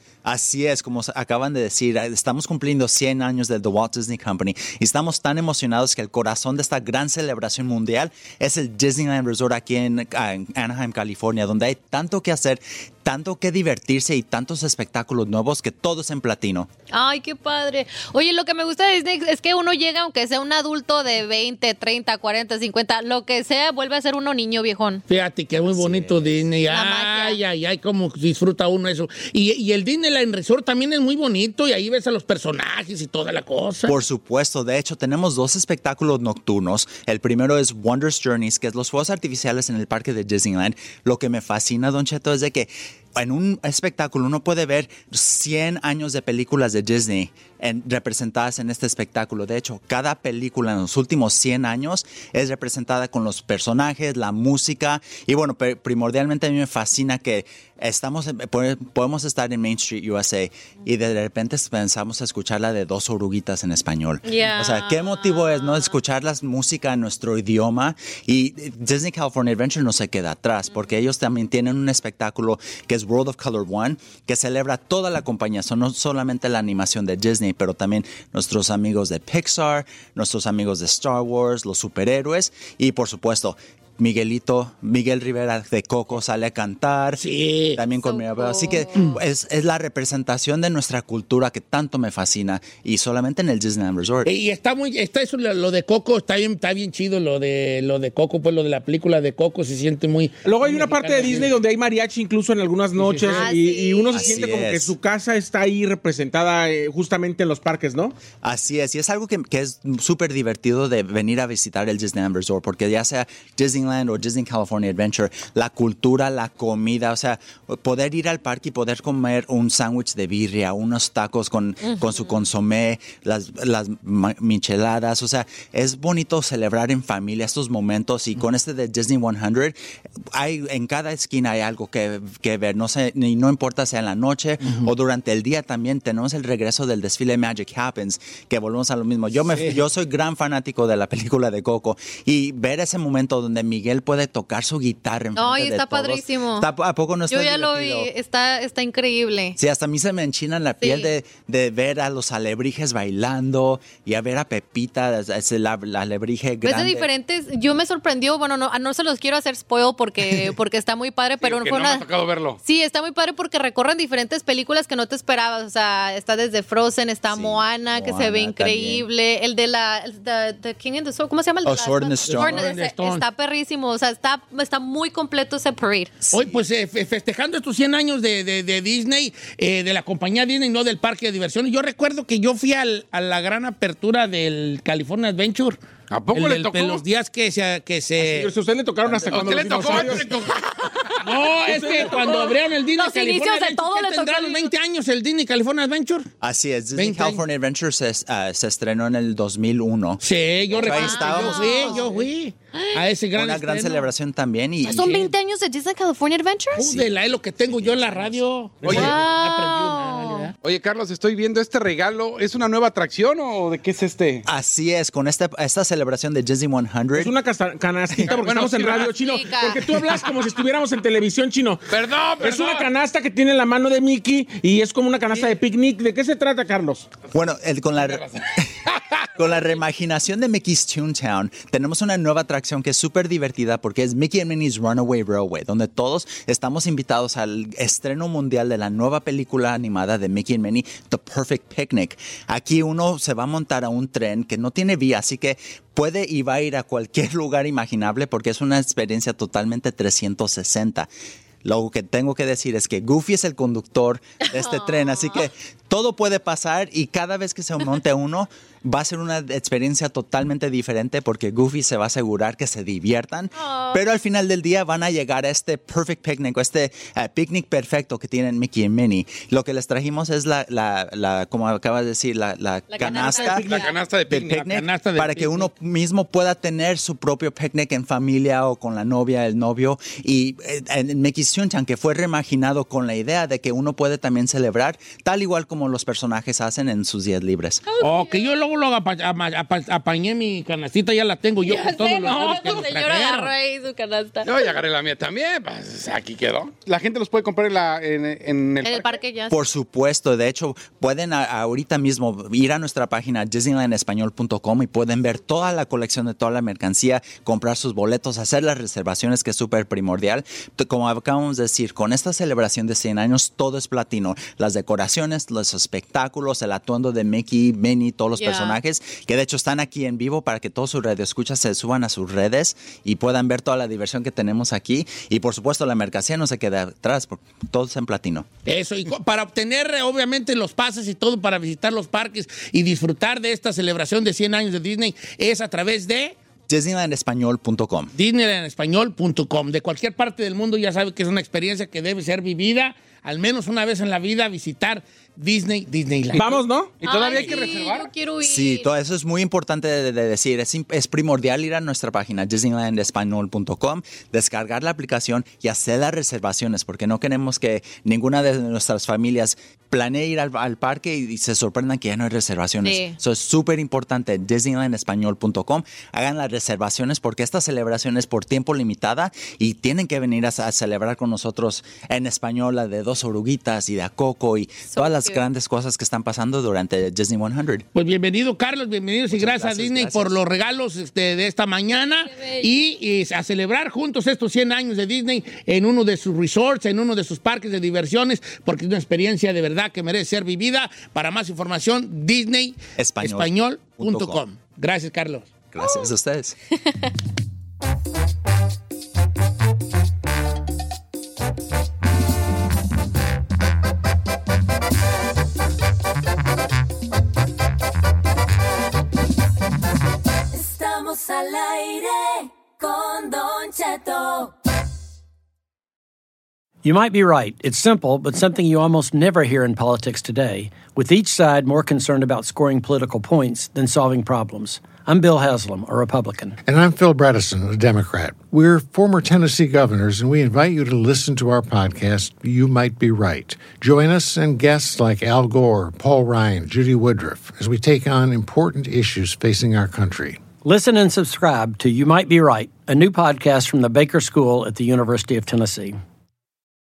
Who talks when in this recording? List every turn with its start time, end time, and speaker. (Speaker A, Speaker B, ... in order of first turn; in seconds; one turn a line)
Speaker A: 0.2-16.7
Speaker B: 16.9-25.0
Speaker C: 25.1-34.0
Speaker A: 25.6-26.5
Speaker B: 26.6-27.4
Speaker A: 33.9-87.2
Speaker B: 64.2-66.0
Speaker B: 70.7-71.0
Speaker C: 87.2-87.8
Speaker A: 87.7-94.3
Speaker B: 88.0-89.2
Speaker C: 94.2-101.5
Speaker D: 100.4-108.2
Speaker C: 103.0-103.5
Speaker B: 103.2-104.4
Speaker A: 104.1-104.9
Speaker A: 108.4-129.8
Speaker B: 121.8-122.5
Speaker A: 130.3-148.1
Speaker C: 134.6-134.9
Speaker C: 139.3-139.8
Speaker B: 145.3-146.7
Speaker B: 147.3-149.6
Speaker A: 149.6-157.1
Speaker B: 150.8-151.1
Speaker B: 156.6-162.1
Speaker E: 161.4-162.6
Speaker B: 162.6-176.1
Speaker A: 167.3-169.1
Speaker A: 171.6-172.7
Speaker C: 172.2-173.2
Speaker A: 176.2-176.6
Speaker C: 176.3-185.8
Speaker E: 186.1-187.0
Speaker C: 186.3-188.5
Speaker D: 188.2-190.3
Speaker E: 189.3-190.6
Speaker C: 191.2-196.3
Speaker D: 191.5-192.4
Speaker B: 192.1-194.7
Speaker A: 196.4-202.0
Speaker C: 196.9-197.5
Speaker C: 200.2-204.1
Speaker B: 200.7-202.1
Speaker B: 202.7-203.0
Speaker A: 203.3-205.3
Speaker B: 204.8-206.9
Speaker C: 206.8-210.5
Speaker A: 206.8-208.4
Speaker D: 208.8-209.1
Speaker B: 208.8-210.5
Speaker E: 210.6-214.4
Speaker A: 214.4-217.3
Speaker D: 217.1-221.8
Speaker E: 218.3-219.3
Speaker B: 219.2-219.8
Speaker E: 221.9-222.9
Speaker D: 222.4-227.1
Speaker A: 227.3-228.7
Speaker E: 228.0-229.2
Speaker A: 229.3-251.1
Speaker A: 251.6-287.8
Speaker B: 254.5-255.5
Speaker B: 263.5-264.0
Speaker B: 272.9-273.9
Speaker C: 273.4-275.7
Speaker E: 273.6-274.5
Speaker B: 287.9-288.5
Speaker C: 288.0-293.5
Speaker B: 291.6-294.7
Speaker E: 294.4-299.1
Speaker B: 298.8-299.7
Speaker A: 299.5-328.5
Speaker B: 318.3-318.8
Speaker C: 328.6-336.4
Speaker A: 336.7-338.1
Speaker C: 338.1-346.6
Speaker D: 346.3-346.9
Speaker E: 347.0-348.1
Speaker B: 347.0-348.9
Speaker A: 348.4-377.9
Speaker B: 362.8-363.2
Speaker B: 374.9-375.4
Speaker C: 377.9-395.5
Speaker A: 379.3-380.4
Speaker B: 382.2-382.7
Speaker A: 393.0-394.4
Speaker A: 395.7-396.6
Speaker F: 410.5-414.5
Speaker G: 416.8-426.6
Speaker H: 426.7-440.4
Speaker G: 440.6-446.0